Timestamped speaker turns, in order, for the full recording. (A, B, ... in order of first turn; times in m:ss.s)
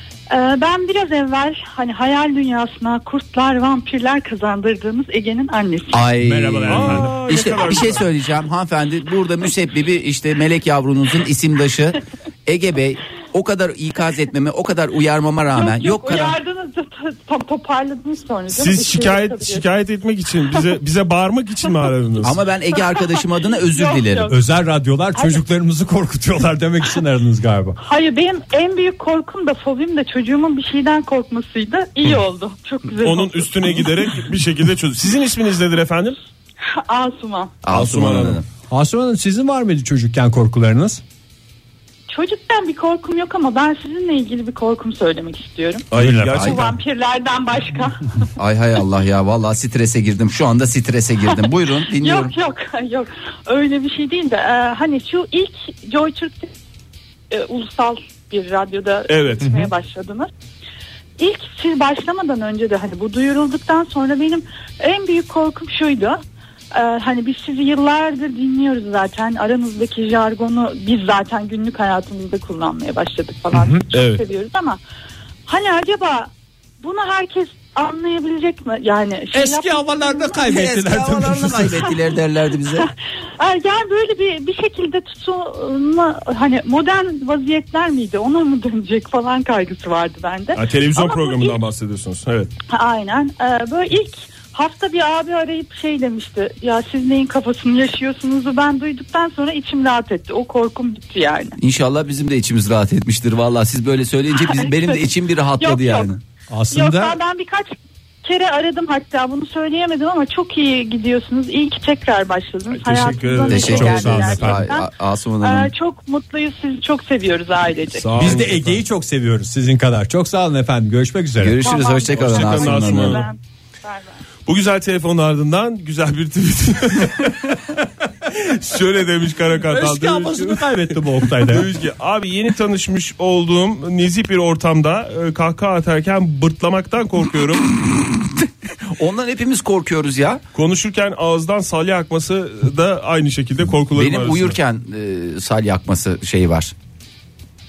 0:00.3-0:06.1 A
0:05.9-0:16.4 B
0:06.2-0:07.2 C
0:06.7-0:08.1 D
0:15.5-0:19.7 A
0:18.5-0:22.3 D
0:22.2-0:24.3 B
0:23.7-0:24.4 A
0:24.3-0:27.8 C
0:25.2-0:25.4 A
0:27.8-0:33.9 A
0:33.0-0:36.2 D
0:36.6-0:37.6 A
0:37.6-0:38.4 B
0:37.7-0:38.4 D
0:38.7-0:41.0 C
0:42.1-0:48.1 A
0:45.9-0:46.7 D
0:45.9-0:46.5 C
0:46.3-0:46.6 B
0:48.4-0:52.3 B
0:52.0-0:56.5 A
0:57.3-1:00.3 A
0:59.1-0:59.6 D
1:01.2-1:06.2 A
1:06.7-1:14.8 A
1:13.5-1:13.8 C
1:13.9-1:14.2 D
1:15.5-1:20.5 A
1:19.3-1:21.8 C
1:20.4-1:22.9 B
1:22.8-1:31.6 A
1:30.6-1:32.5 D
1:32.7-1:41.6 A
1:41.6-1:46.2 B
1:44.3-1:45.0 A
1:45.6-1:46.1 A
1:46.5-1:47.2 C
1:46.7-1:54.9 A
1:52.7-1:54.3 D
1:53.3-1:54.7 C
1:53.5-1:55.7 B
1:55.4-1:58.2 A
1:57.9-1:58.8 D
1:58.2-2:01.7 C
2:01.4-2:03.2 B
2:01.6-2:04.2 A
2:02.1-2:03.3 D
2:04.5-2:07.6 D
2:08.3-2:17.7 D
2:09.7-2:11.7 C
2:18.9-2:20.4 B
2:20.6-2:24.6 D
2:24.0-2:26.7 B